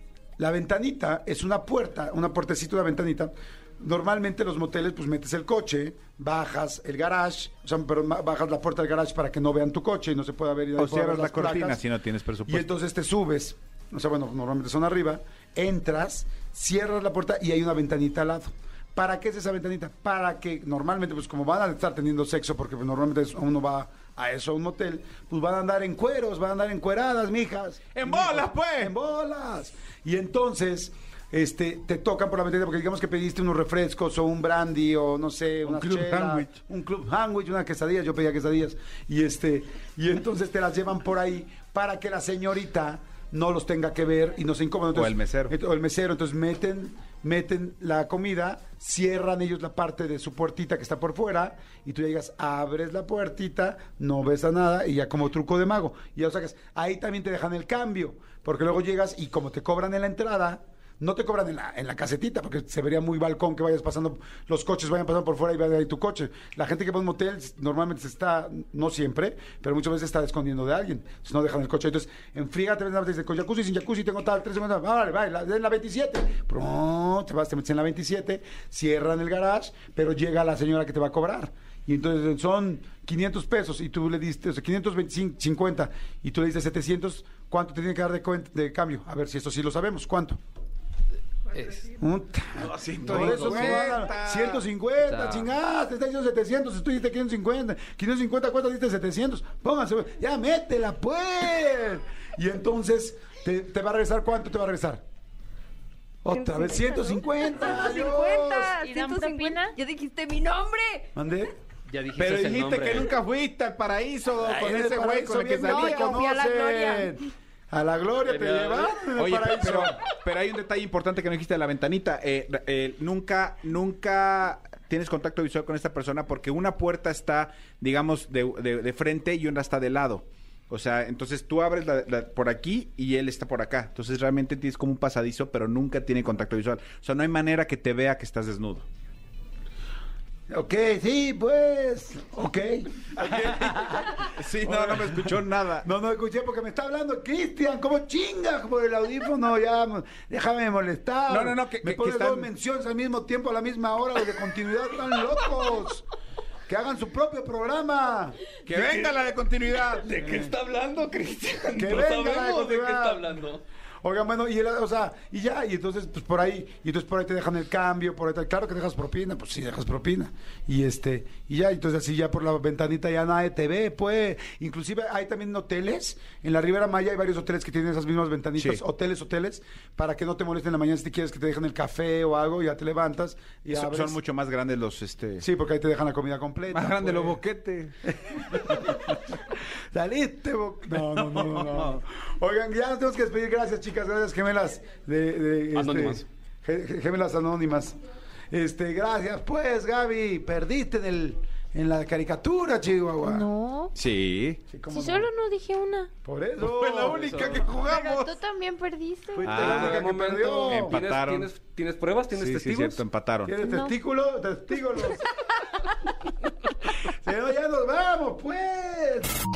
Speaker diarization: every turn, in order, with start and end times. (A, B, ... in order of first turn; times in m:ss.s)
0:00.4-0:11.8 A
0:10.8-0:12.6 B
0:12.5-1:30.4 A
0:27.9-0:28.9 B
0:35.6-0:36.5 B
0:44.9-0:45.6 B
1:31.5-1:31.9 C
1:31.9-1:45.0 A
1:32.6-1:34.6 B
1:33.0-1:34.0 C
1:35.0-1:35.5 C
1:46.2-1:48.8 A
1:46.3-1:51.1 D
1:48.8-1:49.8 E
1:51.1-1:51.5 A
1:51.9-1:53.1 C
1:52.2-1:56.2 B
1:54.4-2:00.0 A
1:55.6-1:57.1 D
1:55.7-1:57.1 E
1:58.2-1:59.1 C
1:59.2-2:18.9 B
2:20.5-2:36.1 A
2:23.1-2:25.9 B
2:31.3-2:32.5 B
2:36.7-2:38.4 A
2:38.6-2:40.2 B
2:38.7-2:39.2 C
2:39.9-2:43.6 C
2:40.2-2:40.5 A
2:41.8-2:43.4 A
2:44.0-3:04.2 A
3:03.7-3:05.5 B
3:05.4-3:07.4 A
3:06.7-3:09.2 B
3:08.0-3:18.0 A
3:11.0-3:12.0 B
3:15.7-3:16.2 C
3:18.5-3:23.5 A
3:23.2-3:23.9 E
3:23.9-3:24.6 B
3:24.7-3:25.3 A
3:24.9-3:26.1 E
3:26.2-3:27.8 A
3:26.6-3:28.4 B
3:27.1-3:27.6 C
3:27.7-3:29.4 E
3:29.3-3:31.0 A
3:29.4-3:30.1 B
3:29.5-3:33.0 C
3:30.7-3:31.5 B
3:32.3-3:33.6 B
3:33.4-3:35.3 A
3:33.6-3:33.9 E
3:37.0-3:39.3 A